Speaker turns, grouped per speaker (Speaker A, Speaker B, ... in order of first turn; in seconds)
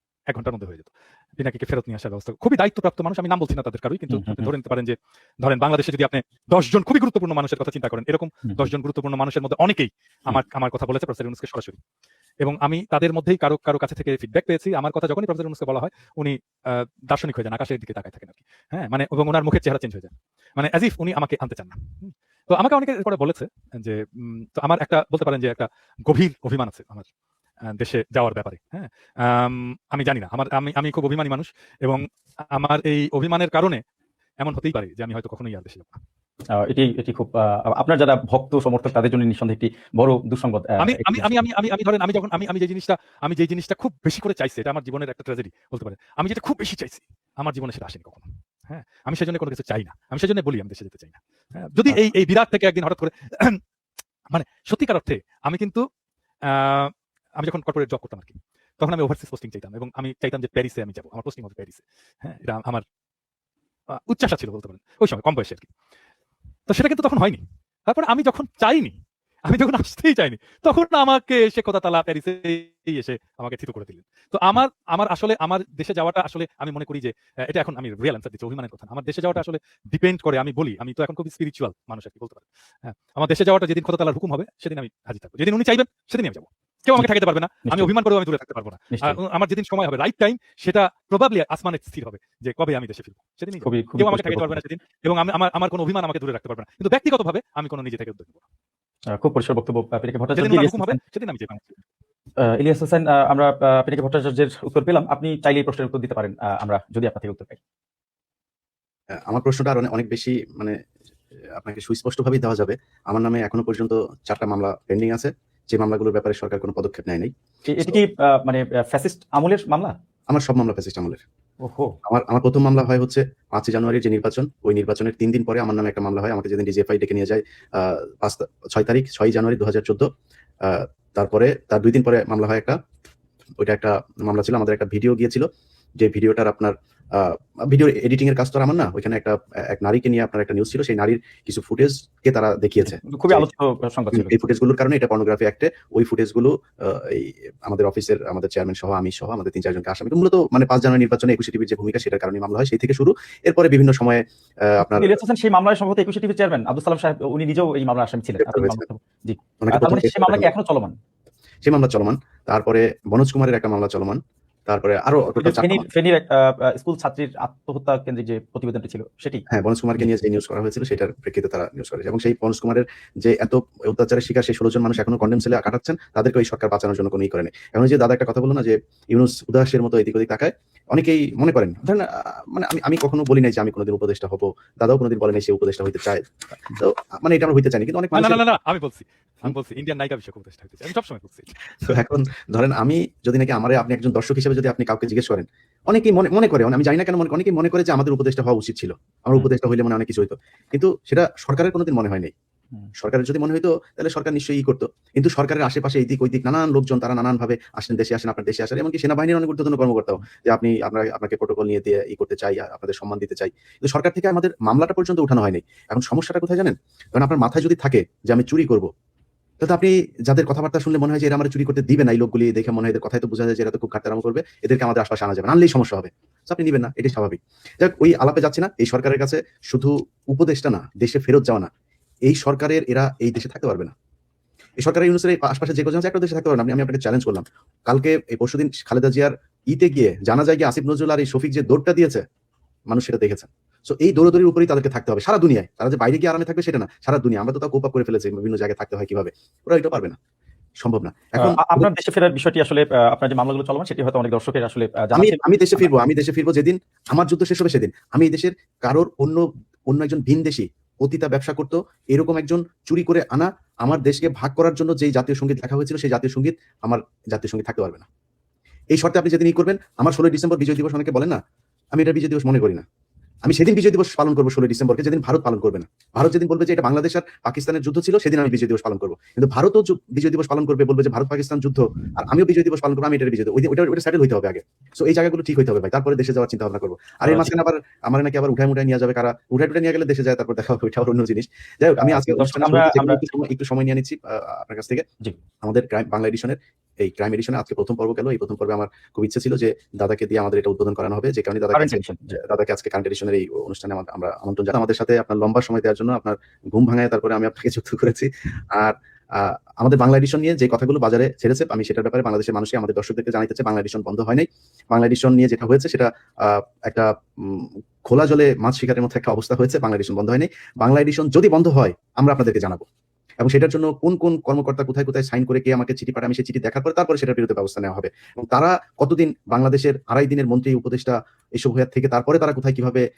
Speaker A: 0.3-11.8, 12.4-27.0, 27.7-33.8, 34.4-36.0, 40.8-53.6, 54.3-55.8, 56.5-62.8, 63.9-65.7, 66.7-98.4, 100.3-101.8, 188.1-191.9
Speaker B: 4.1-4.5, 36.5-41.3, 88.9-89.2, 93.6-94.5, 99.1-101.0, 102.4-107.6, 117.7-119.9, 121.6-121.9, 142.9-144.4, 154.8-160.9, 165.4-169.4, 251.4-255.9, 287.2-287.5, 292.0-293.2, 301.7-302.4
Speaker C: 109.3-110.8, 111.6-118.0, 120.3-121.2, 122.0-130.1, 130.6-132.8, 133.6-135.4, 136.0-143.5, 144.1-155.2, 158.4-158.8, 159.6-160.5, 161.6-165.8, 169.5-188.4, 191.8-202.3, 203.0-218.9, 219.6-231.7, 232.3-233.9, 234.8-242.2, 242.9-250.2, 250.8-251.9, 255.1-268.1, 268.9-271.4, 271.9-272.8, 273.4-295.0, 295.6-322.8, 323.4-333.0